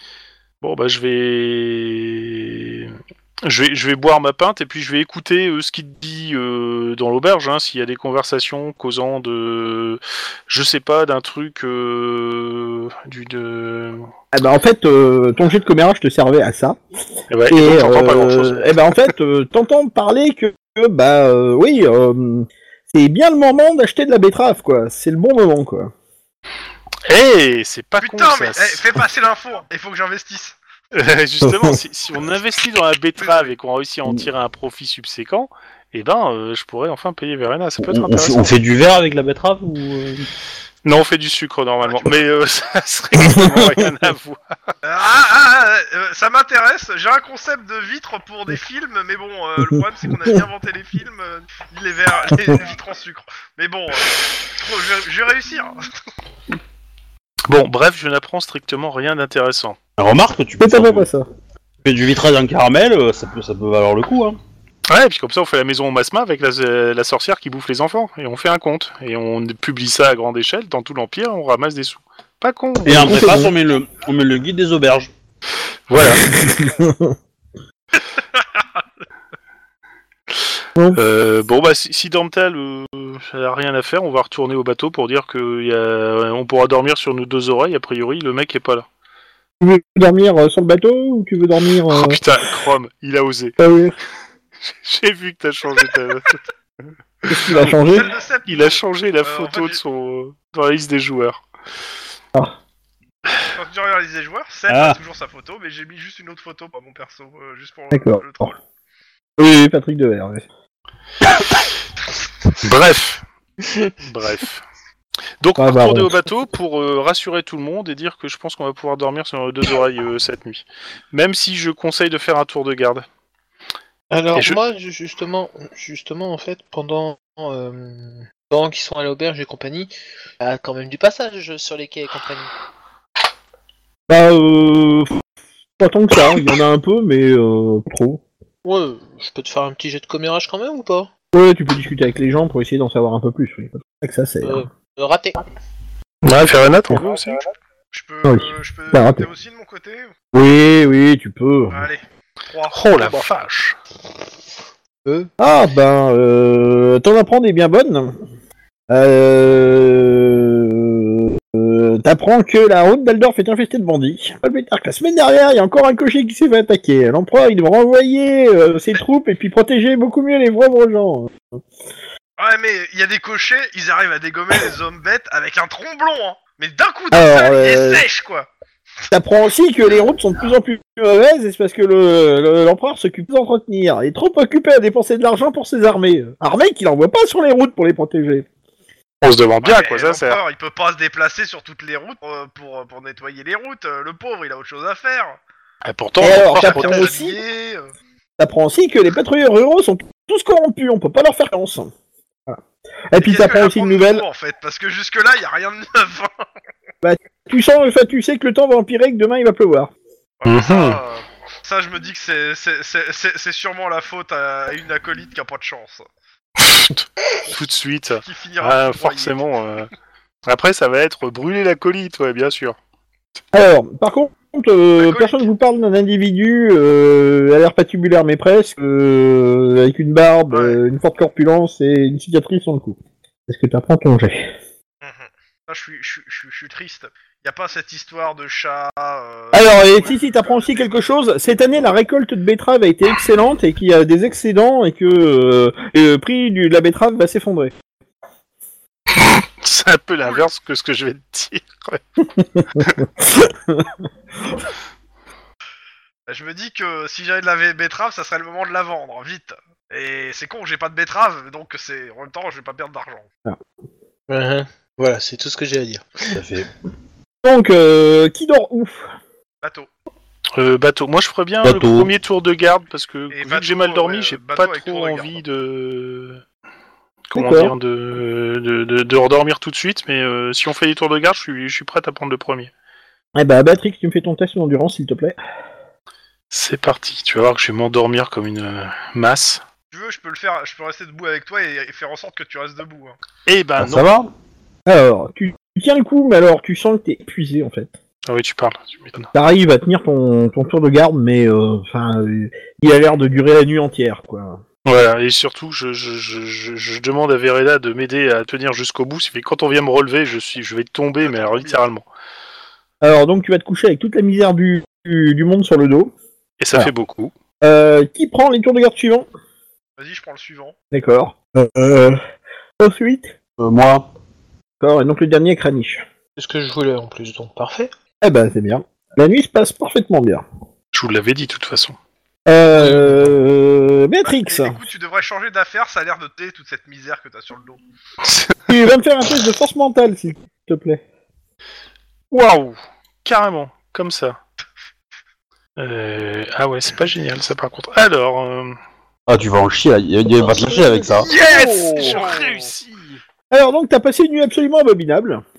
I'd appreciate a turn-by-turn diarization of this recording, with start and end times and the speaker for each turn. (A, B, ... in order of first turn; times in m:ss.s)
0:00.6-0:14.1 A
0:14.3-0:16.8 B
0:17.3-0:18.8 A
0:17.5-0:25.9 B
0:27.1-0:28.8 A
0:28.0-0:30.6 C
0:30.9-0:38.5 A
0:37.8-0:40.2 D
0:40.8-0:44.4 A
0:41.8-0:42.2 C
0:43.2-0:43.8 B
0:44.8-0:55.8 C
0:52.3-0:52.6 B
0:57.5-0:59.8 A
1:00.0-1:01.1 D
1:00.6-1:01.2 B
1:01.8-1:04.4 D
1:04.9-1:13.3 A
1:12.8-1:13.5 B
1:12.8-1:15.1 D
1:15.9-1:16.2 A
1:16.2-1:17.1 B
1:20.9-1:28.8 A
1:29.6-1:32.2 B
1:31.9-1:33.5 A
1:33.6-1:33.9 B
1:34.6-1:36.4 A
1:37.2-1:37.7 A
1:37.3-1:38.1 B
1:37.5-1:39.8 C
1:38.5-1:41.4 A
1:43.5-1:48.5 C
1:44.7-1:45.0 D
1:47.9-1:48.5 B
1:49.4-1:50.4 B
1:52.6-1:53.2 A
1:54.0-1:54.6 A
1:55.4-2:03.0 A
1:55.6-1:56.1 B
2:04.1-2:12.5 E
2:14.1-2:15.2 B
2:15.8-2:18.2 B
2:18.6-2:21.1 E
2:21.3-2:24.7 B
2:24.4-2:25.4 E
2:26.2-2:27.4 A
2:27.9-2:30.1 C
2:28.2-2:29.3 B
2:30.3-2:31.9 B
2:31.7-2:33.3 C
2:32.7-2:33.8 A
2:35.0-2:35.3 E
2:35.4-2:38.2 B
2:38.9-2:51.4 B
2:52.4-2:58.5 C
2:57.1-2:58.0 B
2:59.1-3:08.4 B
3:09.2-3:10.4 A
3:09.6-3:15.4 C
3:15.8-3:17.1 A
3:16.2-3:17.4 B
3:16.3-3:17.9 C
3:18.4-3:21.9 B
3:22.5-3:24.2 B
3:23.2-3:26.3 C
3:27.0-3:29.9 B
3:30.4-3:36.0 C
3:30.5-3:31.0 A
3:36.6-3:39.9 A
3:38.2-3:39.5 C
3:40.4-3:42.8 A
3:43.5-3:54.5 B
3:45.0-3:45.5 C
3:55.0-4:00.9 C
3:59.5-4:07.7 B
4:09.2-4:12.0 A
4:10.2-4:10.5 C
4:12.4-4:13.9 B
4:16.3-4:23.3 C
4:24.3-4:26.4 E
4:26.3-4:26.7 D
4:27.4-4:29.1 B
4:29.6-4:29.9 C
4:30.6-4:36.4 A
4:31.6-4:32.1 D
4:33.3-4:35.4 C
4:37.3-4:42.7 A
4:37.3-4:37.7 B
4:43.3-4:45.4 B
4:46.5-4:49.6 A
4:49.9-4:53.2 C
4:53.5-4:54.1 A
4:53.8-4:54.3 D
4:54.9-4:57.9 B
4:58.3-4:59.3 A
4:59.3-5:04.6 B
5:04.8-5:12.0 A
5:11.2-5:11.8 C
5:13.0-5:16.1 B
5:16.6-5:17.3 A
5:17.6-5:19.3 B
5:20.0-5:20.7 C
5:20.9-5:22.2 B
5:22.8-5:23.3 B
5:23.6-5:24.1 D
5:24.8-5:26.0 B
5:26.4-5:27.9 E
5:28.2-5:30.4 B
5:30.9-5:32.0 A
5:32.5-5:34.8 B
5:32.7-5:33.3 E
5:34.2-5:37.8 C
5:38.7-5:41.0 B
5:42.3-5:44.4 A
5:45.8-5:48.8 A
5:49.3-5:51.3 D
5:51.2-5:53.2 A
5:51.2-5:52.7 C
5:53.5-5:55.4 B